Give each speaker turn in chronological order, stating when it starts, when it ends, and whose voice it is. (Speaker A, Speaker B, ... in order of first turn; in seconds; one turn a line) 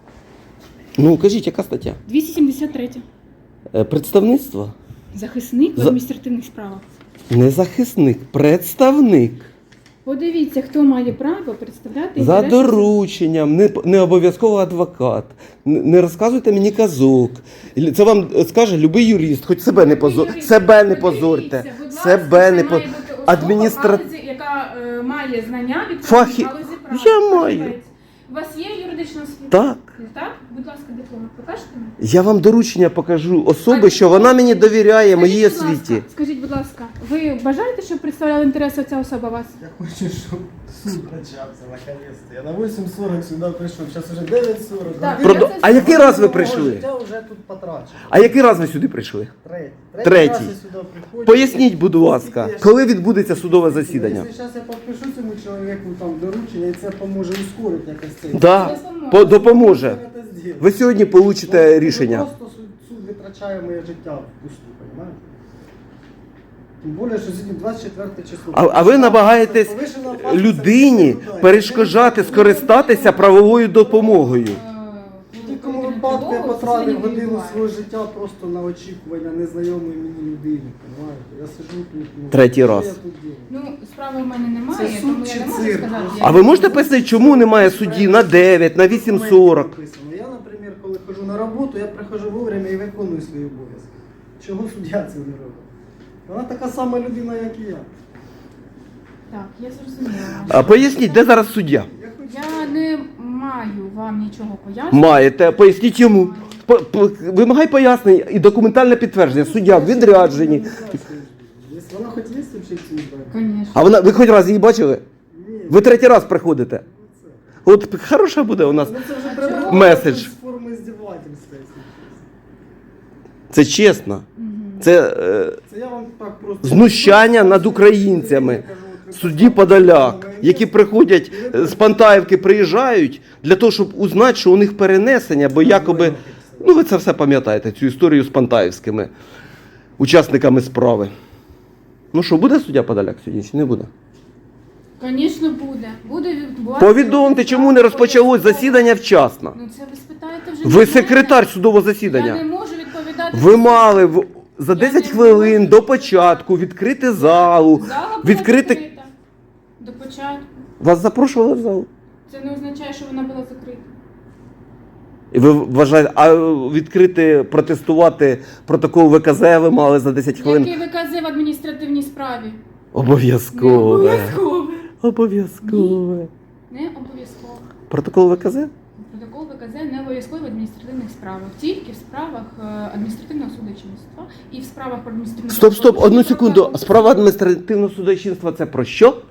Speaker A: 1.0-2.0
Speaker B: 2.0-3.0
Speaker A: 3.7-4.7
Speaker B: 5.1-6.8
Speaker A: 7.3-9.5
Speaker B: 10.0-12.9
Speaker A: 12.2-24.0
Speaker B: 19.7-31.9
Speaker A: 26.0-27.8
Speaker A: 29.5-29.8
Speaker A: 32.0-36.0
Speaker B: 33.7-39.5
Speaker C: 39.6-48.3
Speaker B: 45.0-45.9
Speaker A: 45.2-46.9
Speaker A: 48.1-49.3
Speaker C: 49.4-60.8
Speaker A: 50.0-50.5
Speaker A: 51.2-54.3
Speaker A: 58.3-60.0
Speaker B: 58.5-59.5
Speaker A: 60.6-62.3
Speaker C: 61.4-65.2
Speaker C: 66.8-72.7
Speaker A: 68.5-74.6
Speaker B: 72.2-77.7
Speaker C: 75.4-83.5
Speaker A: 82.3-82.9
Speaker B: 83.5-86.7
Speaker C: 84.7-95.7
Speaker A: 86.2-89.7
Speaker C: 96.2-97.9
Speaker B: 99.3-101.3
Speaker C: 100.5-101.2
Speaker A: 100.5-101.9
Speaker C: 101.8-102.8
Speaker B: 102.2-106.6
Speaker A: 104.9-110.8
Speaker B: 109.4-109.9
Speaker C: 109.6-113.3
Speaker B: 113.3-113.9
Speaker A: 113.7-115.0
Speaker C: 115.3-117.4
Speaker A: 115.7-116.8
Speaker A: 117.6-120.3
Speaker C: 118.6-122.2
Speaker B: 119.2-120.0
Speaker A: 123.5-124.2
Speaker B: 124.3-124.9
Speaker A: 124.8-125.6
Speaker C: 125.7-132.2
Speaker A: 126.6-139.1
Speaker C: 135.6-136.7
Speaker A: 140.0-141.1
Speaker A: 142.1-143.9
Speaker B: 145.0-148.9
Speaker A: 146.8-149.6
Speaker B: 149.5-151.4
Speaker A: 150.6-152.4
Speaker B: 152.0-154.1
Speaker A: 153.3-158.8
Speaker B: 154.7-156.4
Speaker B: 157.1-159.1
Speaker B: 159.8-160.5
Speaker A: 160.8-161.9
Speaker B: 162.3-163.9
Speaker A: 165.3-170.7
Speaker B: 170.4-172.6
Speaker A: 172.9-174.4
Speaker B: 173.5-174.9
Speaker A: 174.9-176.3
Speaker B: 175.6-176.0
Speaker B: 176.7-177.7
Speaker A: 177.9-178.7
Speaker B: 179.0-186.9
Speaker A: 185.5-189.2